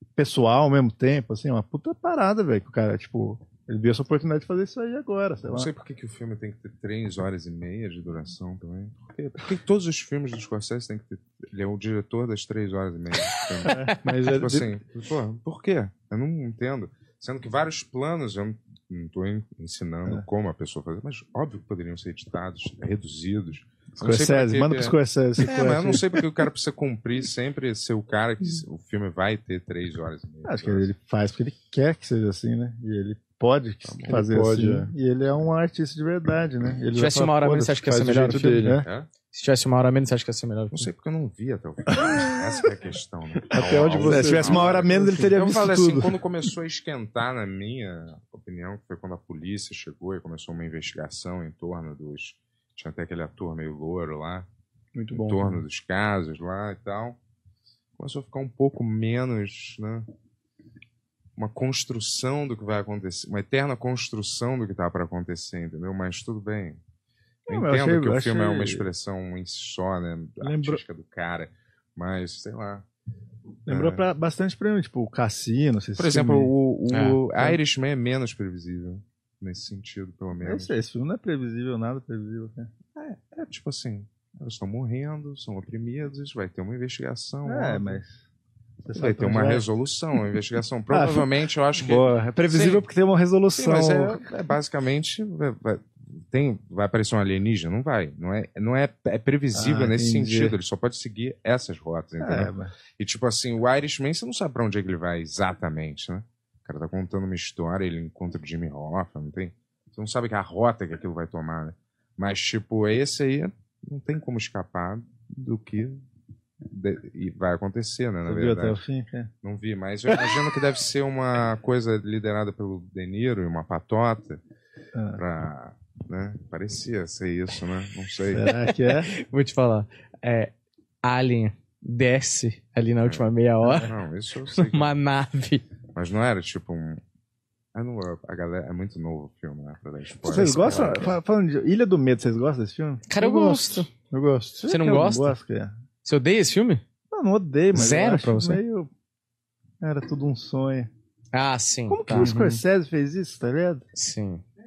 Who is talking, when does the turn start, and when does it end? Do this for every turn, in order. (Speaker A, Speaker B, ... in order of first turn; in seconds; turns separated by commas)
Speaker A: 0.1-5.7, Speaker B: 5.5-30.9, Speaker C: 13.3-13.9, Speaker A: 13.7-13.9, Speaker D: 14.0-14.7, Speaker A: 24.0-26.2, Speaker A: 30.4-38.9, Speaker B: 33.8-34.2, Speaker D: 34.1-34.9, Speaker C: 36.9-38.7, Speaker D: 37.9-38.8, Speaker B: 38.8-39.1, Speaker C: 39.3-40.9, Speaker B: 40.7-54.5, Speaker A: 41.9-42.3, Speaker D: 43.5-45.3, Speaker A: 44.0-46.2, Speaker D: 54.9-55.6, Speaker B: 55.1-57.2, Speaker B: 58.0-60.1, Speaker B: 61.4-66.8, Speaker A: 67.5-68.9, Speaker B: 67.5-72.8, Speaker A: 70.4-70.8, Speaker B: 73.7-74.0, Speaker A: 73.7-76.5, Speaker B: 76.0-80.8, Speaker C: 76.9-77.2, Speaker A: 80.4-82.7, Speaker B: 83.0-88.0, Speaker A: 87.4-88.2, Speaker A: 88.8-89.7, Speaker B: 88.9-92.8, Speaker A: 90.9-94.2, Speaker B: 93.5-116.0, Speaker A: 99.5-100.6, Speaker A: 102.2-102.7, Speaker B: 116.6-118.8, Speaker A: 118.2-119.3, Speaker B: 119.4-124.4, Speaker A: 124.9-125.2, Speaker B: 125.1-128.4, Speaker A: 128.3-129.1, Speaker C: 128.5-133.9, Speaker B: 133.0-134.9, Speaker A: 133.6-133.9, Speaker C: 134.5-135.6, Speaker B: 135.9-137.0, Speaker B: 137.7-141.1, Speaker A: 140.2-143.8, Speaker C: 140.6-140.9, Speaker C: 143.1-143.9, Speaker D: 144.1-144.6, Speaker A: 144.5-145.7, Speaker C: 144.7-145.3, Speaker C: 146.0-146.8, Speaker A: 147.1-148.9, Speaker C: 147.7-148.6, Speaker A: 149.8-150.9, Speaker C: 151.3-152.3, Speaker A: 151.9-153.8, Speaker D: 152.2-152.6, Speaker C: 153.9-154.4